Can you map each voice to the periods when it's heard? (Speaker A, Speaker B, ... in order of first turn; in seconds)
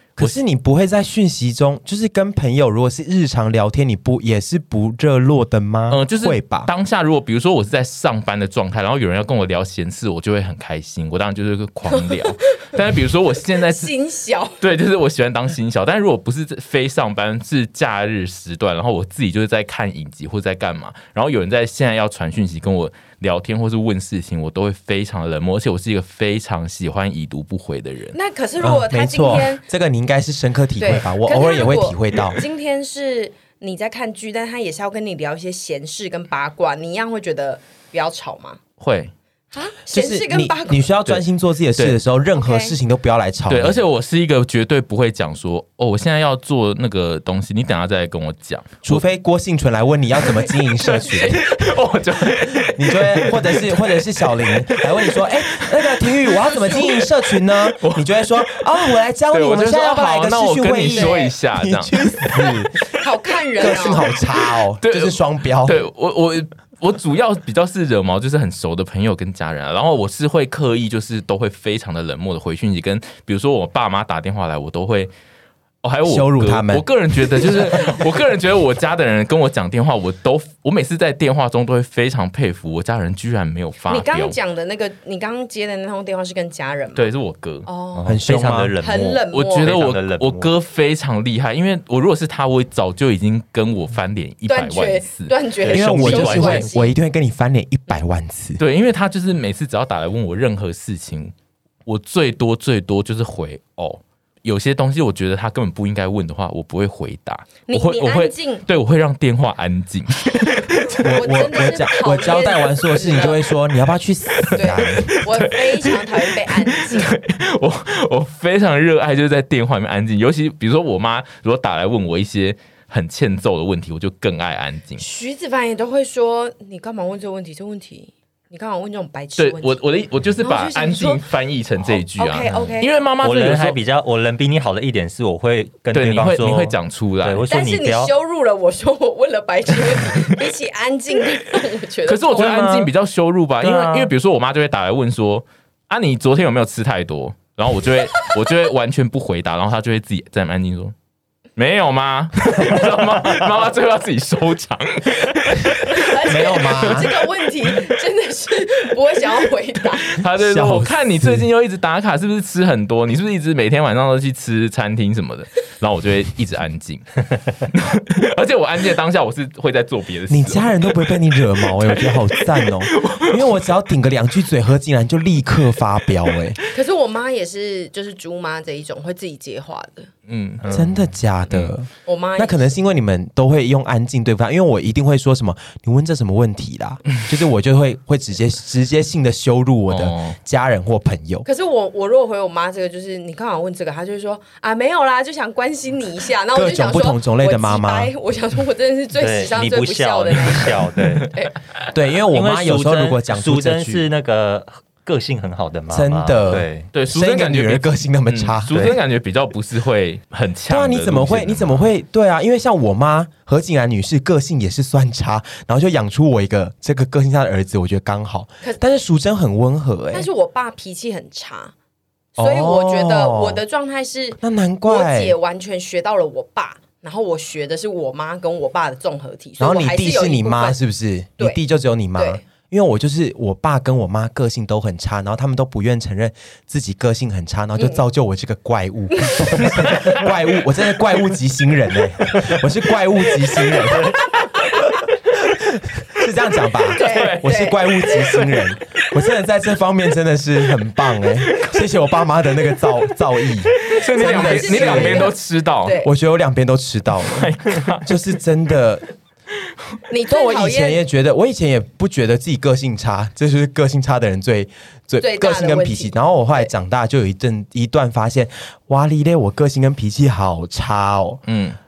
Speaker A: 0.2-6.7, 28.6-32.4, 39.9-43.8, 48.8-51.5, 52.5-62.7, 63.6-65.8, 76.0-77.8, 88.0-88.7, 95.7-98.6, 111.0-115.1, 156.3-157.1, 160.3-161.4, 170.3-176.6, 180.7-191.4, 196.5-198.1, 201.9-204.0, 205.9-208.7, 210.7-220.3, 222.4-223.6, 224.4-225.3, 229.6-244.2, 245.3-255.3, 256.0-259.0, 260.3-271.4
Speaker B: 5.9-13.9, 14.6-28.1, 38.8-39.1, 43.5-49.0, 50.8-57.1, 57.6-58.6, 59.3-62.5, 64.8-75.1, 75.8-84.3, 86.9-87.7, 89.3-95.3, 96.1-96.6, 98.6-101.3, 101.8-111.0, 114.5-125.0, 129.4-133.8, 135.9-137.4, 142.1-150.9, 151.6-157.1, 160.1-167.1, 167.6-170.9, 171.7-173.5, 180.3-180.6, 189.9-190.3, 206.9-211.9, 239.7-240.2, 246.9-249.0, 251.4-251.9, 253.8-256.0, 257.2-258.1, 271.5-271.8
Speaker C: 11.9-12.3, 13.6-14.6, 28.1-29.6, 30.8-38.6, 39.5-40.9, 42.4-42.7, 60.9-61.3, 62.9-64.0, 83.9-87.1, 87.6-88.2, 88.8-89.7, 94.5-96.9, 107.7-108.6, 111.1-113.4, 114.5-117.1, 125.0-129.8, 130.4-131.2, 132.2-132.9, 137.5-142.5, 155.8-160.1, 176.7-180.1, 182.0-182.7, 191.4-201.5, 220.1-221.7, 222.4-230.8, 232.2-232.4, 239.1-239.7, 246.9-248.3, 254.0-256.1, 260.1-261.0, 265.2-266.7
Speaker D: 87.9-90.5, 95.6-96.7, 132.5-138.1, 142.3-142.9, 143.6-144.1, 180.6-181.0, 199.1-201.3, 202.3-206.9, 208.7-209.0